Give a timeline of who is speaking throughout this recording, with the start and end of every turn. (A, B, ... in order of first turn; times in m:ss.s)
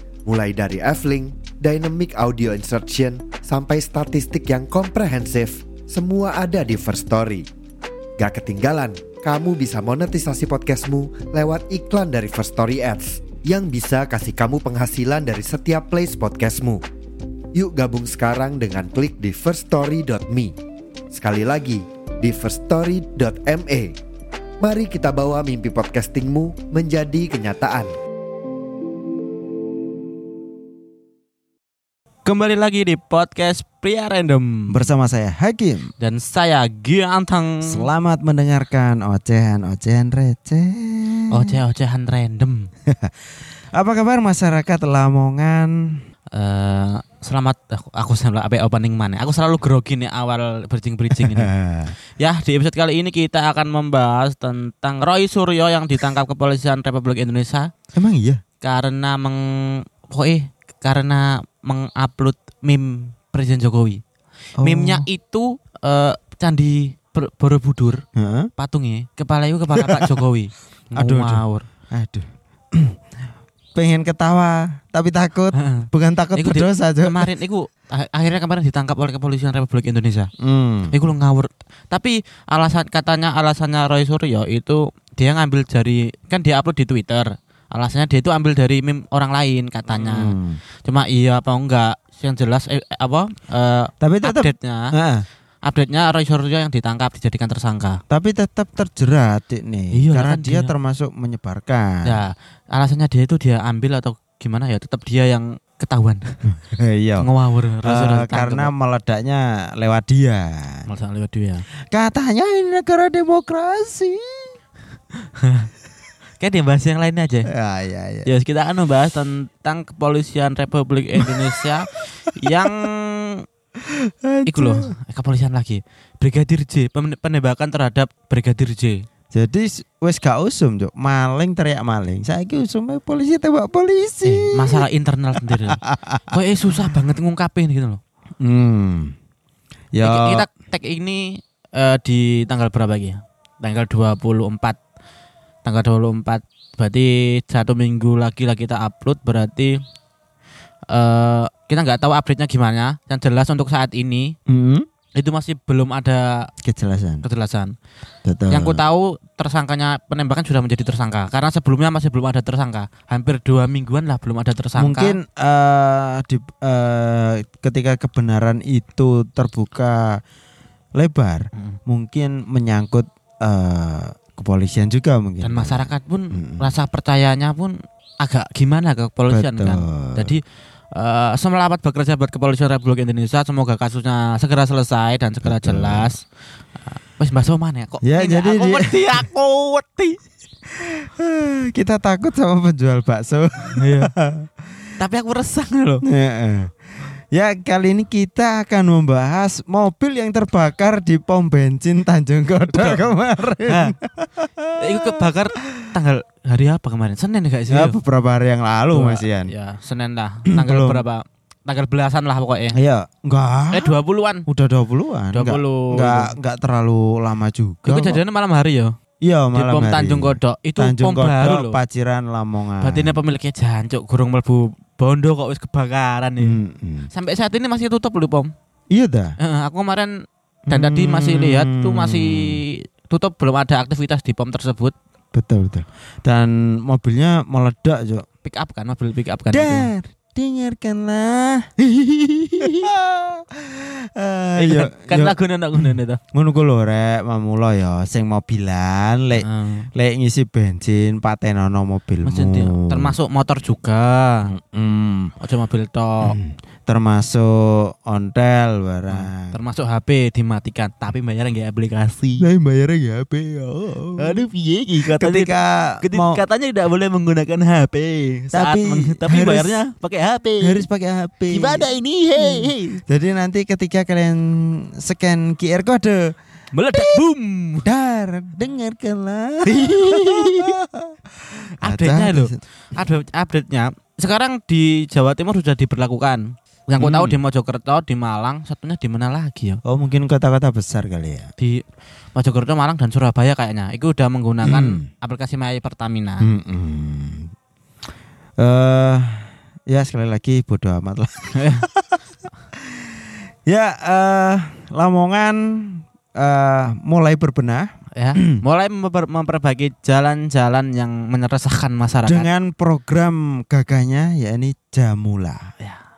0:00.3-0:07.5 A
0:08.2-0:16.8 A
0:17.6-0:20.5 A
0:21.1-0:24.0 A
0:24.6-0:27.9 A
0:32.2-0:34.9 B
0:34.7-0:35.9 C
0:36.0-0:37.9 B
0:37.6-0:41.6 C
0:41.3-0:42.7 B
0:43.7-0:46.0 C
0:46.3-0:51.5 B
0:51.1-0:51.9 C
0:52.2-0:57.7 B
0:57.9-0:58.4 C
0:58.6-1:04.0 B
1:04.6-1:05.1 C
1:04.6-1:08.0 B
1:08.2-1:08.5 C
1:08.6-1:11.7 B
1:09.8-1:10.1 C
1:10.9-1:13.0 C
1:13.8-1:17.3 C
1:15.5-1:20.3 B
1:20.4-1:21.0 C
1:20.9-1:30.3 B
1:29.9-1:30.6 C
1:30.8-1:34.9 B
1:34.0-1:35.3 C
1:35.6-1:38.0 B
1:38.1-1:42.2 C
1:39.9-1:40.7 B
1:42.0-1:46.3 B
1:46.5-1:47.3 C
1:47.2-1:48.7 B
1:47.8-1:50.9 C
1:50.9-1:51.6 B
1:51.9-1:54.5 C
1:55.2-1:55.7 B
1:56.4-1:57.5 B
1:57.5-1:58.3 C
1:58.3-2:03.4 B
2:02.4-2:02.8 C
2:03.8-2:04.9 C
2:04.5-2:09.0 B
2:09.3-2:14.9 C
2:14.2-2:18.0 B
2:15.4-2:16.2 C
2:18.4-2:19.1 C
2:19.9-2:20.5 C
2:20.0-2:24.8 B
2:25.6-2:29.8 B
2:30.9-2:34.4 B
2:34.5-2:34.9 C
2:35.2-2:36.5 B
2:36.6-2:37.2 C
2:37.2-2:37.7 B
2:38.2-2:38.8 C
2:38.5-2:45.2 B
2:44.8-2:50.2 C
2:51.0-2:56.8 C
2:55.4-3:00.4 B
2:59.3-3:00.4 C
3:00.9-3:06.2 B
3:05.4-3:06.1 C
3:06.9-3:10.2 B
3:08.0-3:09.3 C
3:10.8-3:14.5 C
3:13.7-3:14.1 B
3:15.0-3:16.0 B
3:16.0-3:16.8 C
3:17.3-3:25.9 C
3:22.7-3:23.1 B
3:23.6-3:24.0 B
3:24.8-3:28.0 B
3:27.7-3:29.5 C
3:28.9-3:32.8 B
3:30.5-3:31.0 C
3:32.7-3:34.0 C
3:33.7-3:34.5 B
3:34.5-3:38.2 C
3:35.3-3:36.3 B
3:37.8-3:38.9 B
3:39.2-3:43.2 C
3:39.5-3:41.8 B
3:42.8-3:46.6 B
3:46.4-3:47.1 C
3:47.1-3:48.5 B
3:48.9-3:49.3 C
3:49.4-3:50.1 B
3:50.7-3:52.6 C
3:50.7-3:54.9 B
3:55.3-3:58.2 C
3:58.4-3:59.9 B
3:59.5-4:01.9 C
4:02.5-4:02.9 B
4:02.5-4:13.2 C
4:04.6-4:06.2 B
4:09.4-4:09.9 B
4:12.2-4:14.5 B
4:14.4-4:15.3 C
4:15.4-4:16.4 B
4:16.2-4:19.6 C
4:19.1-4:22.5 B
4:22.4-4:24.5 C
4:24.2-4:30.9 B
4:25.0-4:26.4 C
4:28.5-4:29.8 C
4:30.6-4:36.4 C
4:31.5-4:33.0 B
4:36.7-4:37.9 B
4:36.9-4:37.2 C
4:37.8-4:41.2 C
4:39.7-4:40.8 B
4:41.8-4:42.6 C
4:41.8-4:49.8 B
4:47.0-4:47.4 C
4:49.8-4:51.5 C
4:51.6-4:56.5 B
4:54.6-4:55.0 C
4:56.4-4:57.5 C
4:58.6-5:02.2 C
5:01.6-5:01.9 B
5:02.8-5:03.1 C
5:03.7-5:08.6 C
5:08.2-5:12.5 B
5:12.3-5:15.7 C